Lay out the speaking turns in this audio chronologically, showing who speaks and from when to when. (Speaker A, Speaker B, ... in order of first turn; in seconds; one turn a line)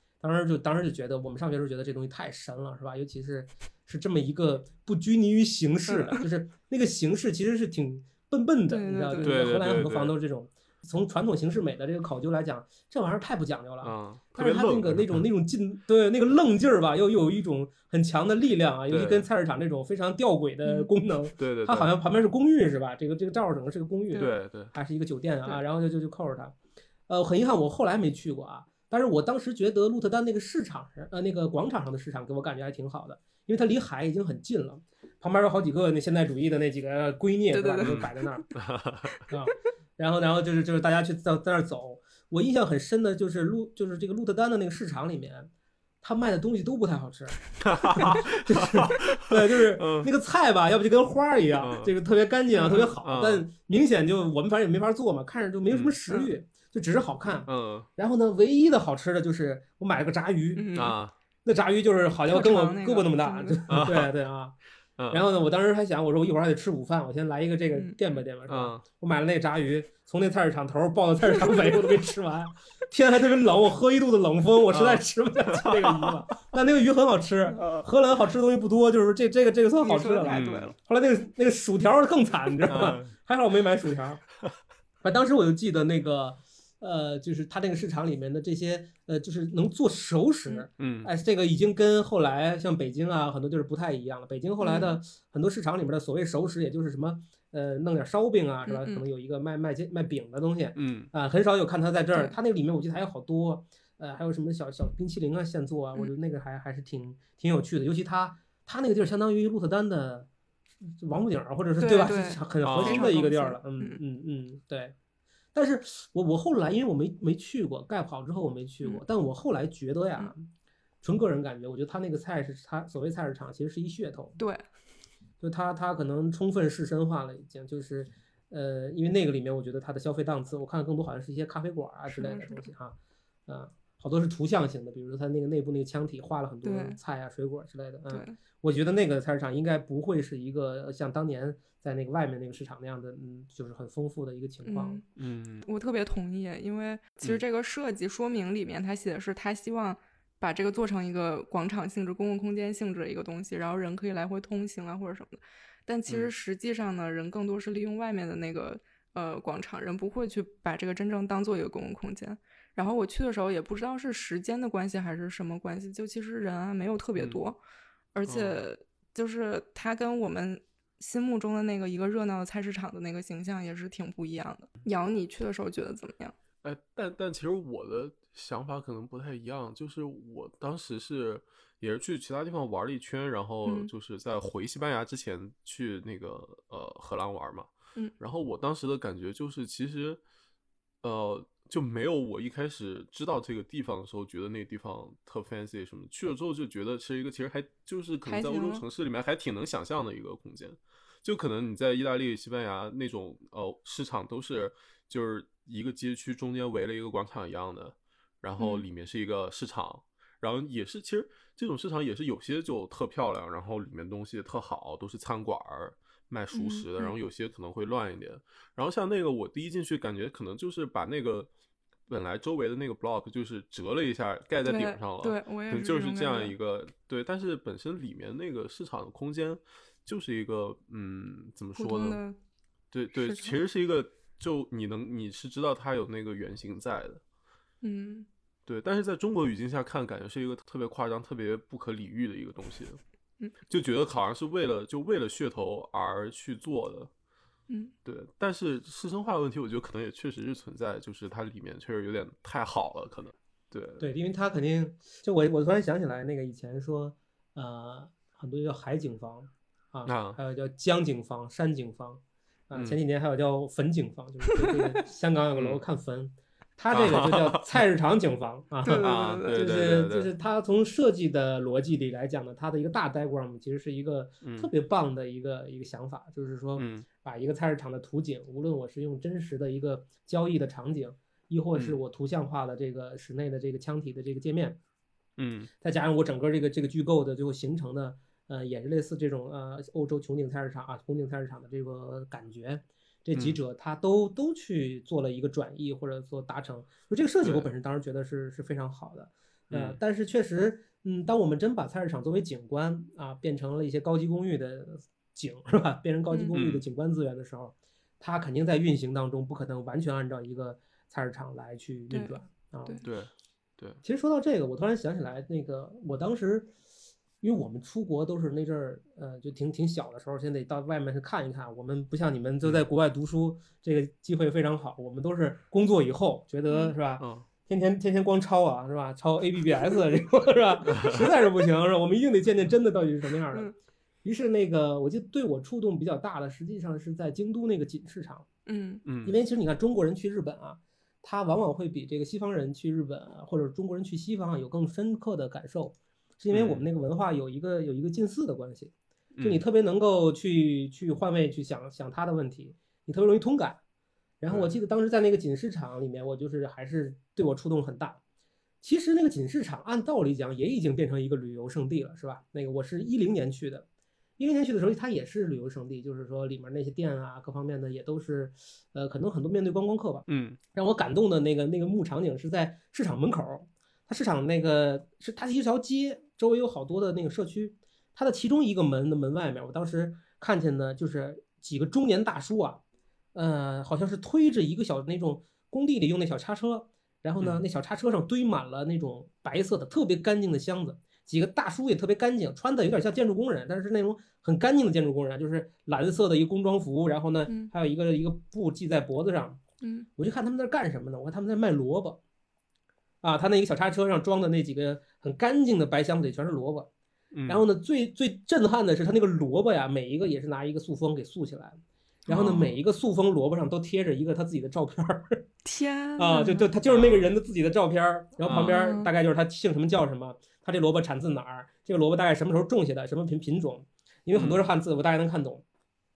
Speaker A: 0.2-26.6
Speaker B: 5.9-6.2
Speaker B: 8.7-9.4
Speaker C: 9.2-10.1
Speaker C: 13.8-15.2
Speaker C: 18.9-19.3
Speaker C: 21.4-21.9
Speaker C: 24.1-24.7
Speaker A: 27.1-38.5
Speaker B: 37.5-38.4
Speaker C: 37.8-39.1
Speaker A: 39.3-45.5
Speaker A: 46.0-60.6
Speaker C: 47.6-50.1
Speaker C: 51.6-51.9
Speaker B: 52.5-52.9
Speaker C: 53.0-53.5
Speaker C: 57.5-57.9
Speaker B: 60.5-61.0
Speaker C: 60.7-61.1
Speaker A: 61.4-64.5
Speaker B: 62.3-63.6
Speaker C: 63.7-64.1
Speaker C: 65.0-65.2
Speaker A: 65.1-84.2
Speaker C: 68.5-68.8
Speaker B: 71.4-71.7
Speaker C: 74.7-76.2
Speaker B: 79.8-80.8
Speaker C: 80.3-80.7
Speaker C: 82.7-83.1
Speaker A: 85.0-110.3
Speaker C: 90.8-91.1
Speaker B: 94.6-95.0
Speaker B: 98.7-99.0
Speaker C: 100.8-101.1
Speaker A: 110.8-114.9
Speaker B: 111.8-114.0
Speaker C: 112.6-113.1
Speaker A: 115.5-120.5
Speaker A: 121.0-124.4
Speaker B: 124.4-124.6
Speaker A: 125.4-132.9
Speaker B: 132.1-132.7
Speaker A: 133.5-145.0
Speaker B: 136.6-137.0
Speaker B: 138.1-138.3
Speaker B: 144.6-145.0
Speaker C: 145.2-145.7
Speaker B: 145.6-167.6
Speaker B: 168.1-176.3
Speaker C: 168.2-168.6
Speaker C: 176.6-190.2
Speaker B: 183.6-183.9
Speaker C: 191.0-221.5
Speaker B: 198.2-198.8
Speaker B: 208.6-208.8
Speaker B: 216.5-217.1
Speaker C: 222.1-232.2
Speaker B: 224.6-226.5
Speaker B: 231.8-232.4
Speaker C: 232.9-237.2
Speaker B: 233.2-233.6
Speaker B: 237.8-238.3
Speaker C: 238.7-243.0
Speaker C: 243.7-247.1
Speaker B: 247.7-247.9
Speaker C: 248.0-254.1
Speaker A: 254.0-284.8
Speaker C: 260.1-260.4
Speaker C: 265.6-265.8
Speaker C: 266.9-267.8
Speaker B: 268.8-269.6
Speaker C: 268.9-270.3
Speaker C: 274.4-274.7
Speaker C: 276.8-277.1
Speaker C: 285.4-285.7
Speaker A: 285.8-313.0
Speaker C: 297.4-297.7
Speaker C: 299.7-300.0
Speaker C: 306.5-306.8
Speaker B: 312.1-313.0
Speaker C: 313.0-314.0
Speaker A: 314.0-316.7
Speaker A: 317.4-333.7
Speaker B: 326.7-326.9
Speaker C: 327.2-327.5
Speaker C: 330.9-331.2
Speaker A: 334.2-338.5
Speaker B: 338.6-339.0
Speaker C: 339.0-339.3
Speaker A: 339.2-353.8
Speaker C: 346.5-346.9
Speaker C: 349.4-349.6
Speaker A: 354.4-358.2
Speaker C: 354.5-354.7
Speaker A: 358.8-363.9
Speaker A: 364.4-382.8
Speaker C: 370.3-370.6
Speaker A: 383.3-399.6
Speaker B: 399.8-400.1
Speaker A: 400.2-402.2
Speaker A: 403.2-406.9
Speaker C: 407.3-407.6
Speaker A: 407.5-415.4
Speaker B: 412.3-412.7
Speaker C: 412.3-412.7
Speaker B: 415.6-416.7
Speaker A: 416.2-425.6
Speaker C: 416.9-417.3
Speaker C: 418.4-418.8
Speaker B: 418.5-419.1
Speaker C: 424.3-424.6